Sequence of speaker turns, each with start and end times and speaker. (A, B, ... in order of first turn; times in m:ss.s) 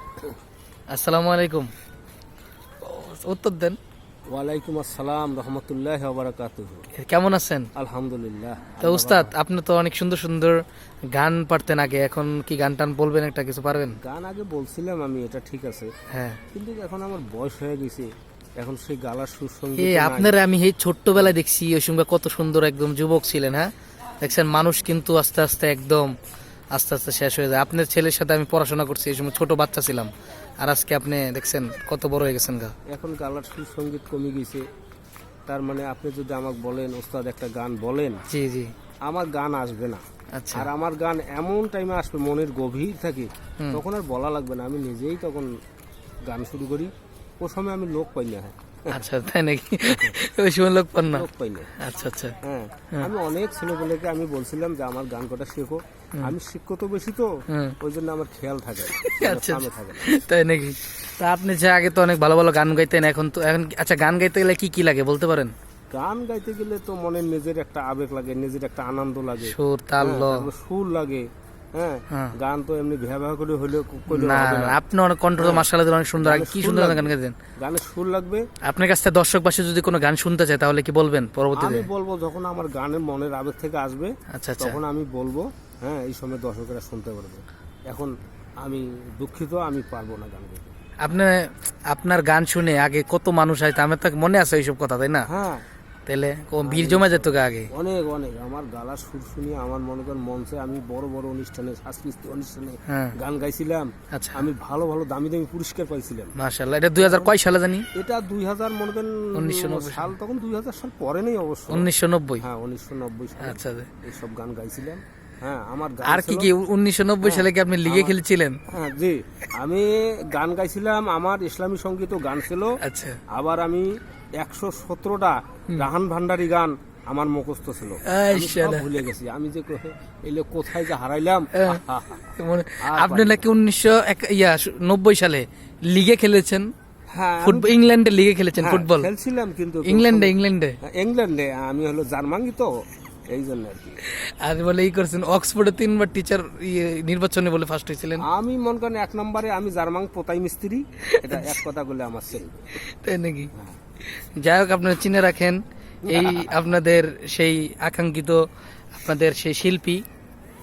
0:00.9-0:01.7 A
0:02.8-0:03.8 A
0:04.3-0:06.9 B
0:06.9-0:07.7 A
0:07.8-0:09.3 B
0:08.8-0:10.6 A
0:11.1-0:14.0 A
0:14.0-0:15.9 B
0:16.1-0:16.4 A
0:16.5-0:20.4 B
0:19.8-0:23.7 A
0:24.2-0:26.1 A
0:26.7-0:32.7 A
0:32.9-0:34.6 B
0:35.5-0:38.2 B
0:38.3-0:38.7 A
0:39.1-0:45.5 B
0:40.3-0:40.7 A
0:46.3-0:49.0 B
0:48.9-0:51.2 A
0:49.9-0:50.1 B
0:51.1-0:51.7 B
0:51.8-0:52.4 A
0:52.4-1:00.1 B
0:57.5-0:57.8 A
0:59.0-1:05.5 A
1:05.9-1:14.8 B
1:09.4-1:10.5 A
1:14.1-1:17.3 A
1:15.4-1:15.7 B
1:16.2-1:18.4 B
1:18.6-1:21.9 A
1:21.5-1:30.7 B
1:24.3-1:24.8 A
1:31.0-1:35.2 A
1:35.3-1:35.6 B
1:36.0-1:37.7 A
1:36.6-1:46.3 B
1:42.9-1:43.1 A
1:44.1-1:44.5 A
1:46.4-1:47.8 A
1:47.0-1:47.3 B
1:47.9-1:51.9 B
1:49.3-1:50.1 A
1:51.7-1:52.4 A
1:52.4-1:56.5 B
1:53.4-1:53.9 A
1:56.0-1:58.6 A
1:57.2-1:58.2 B
1:58.7-2:02.7 B
2:02.8-2:03.2 A
2:03.3-2:12.3 B
2:08.0-2:09.0 A
2:11.5-2:11.8 A
2:12.3-2:16.7 A
2:12.8-2:13.5 B
2:17.1-2:17.7 B
2:17.4-2:19.1 A
2:18.6-2:22.7 B
2:19.8-2:20.8 A
2:23.3-2:24.0 B
2:24.0-2:28.2 A
2:28.2-2:32.6 B
2:31.1-2:31.6 A
2:32.8-2:33.5 A
2:34.1-2:40.0 A
2:36.0-2:36.6 B